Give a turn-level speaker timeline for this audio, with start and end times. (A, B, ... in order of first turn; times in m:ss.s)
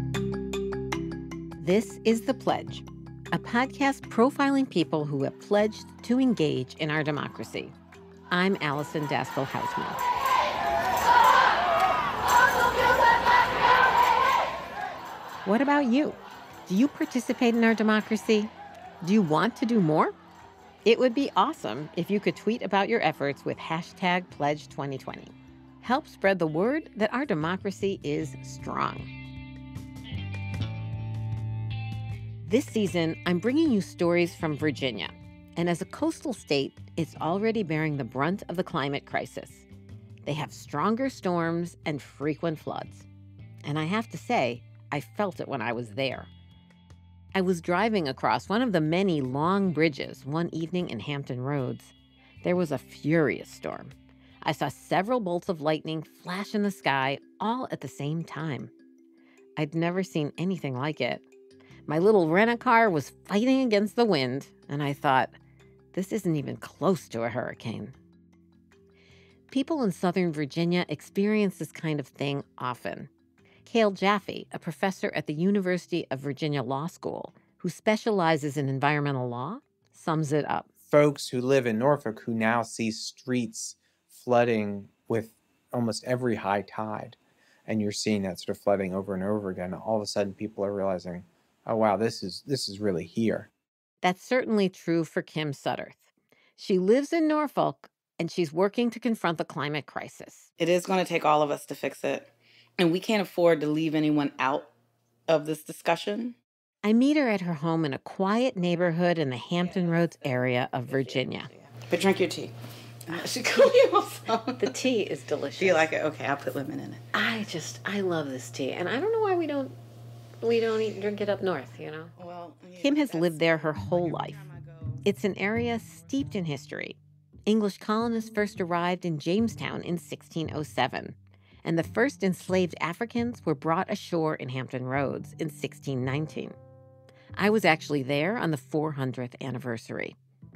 0:01.6-0:07.7 A
0:08.3-0:10.0 A
0:15.4-0:18.5 A
0:19.0-0:20.1 A
0:20.8-0:29.1 A
0:32.4-0:39.7 A
0:40.2-0:43.1 A
0:43.6-0:46.3 A
0:47.3-0:58.7 A
0:59.6-1:01.3 A
1:01.9-1:05.4 A
1:05.9-1:08.0 A
1:09.5-1:13.1 A
1:13.6-1:20.7 A
1:20.9-1:33.5 B
1:34.0-1:36.1 A
1:36.6-1:40.5 A
1:40.6-1:44.7 C
1:45.3-1:46.4 C
1:46.8-1:51.5 A
1:49.6-1:52.5 C
1:53.1-1:54.6 C
1:54.6-1:55.9 A
1:55.6-1:57.0 C
1:57.1-1:59.8 A
2:00.4-2:02.1 A
2:02.2-2:05.0 C
2:02.8-2:04.5 A
2:05.0-2:16.6 A
2:17.4-2:20.2 A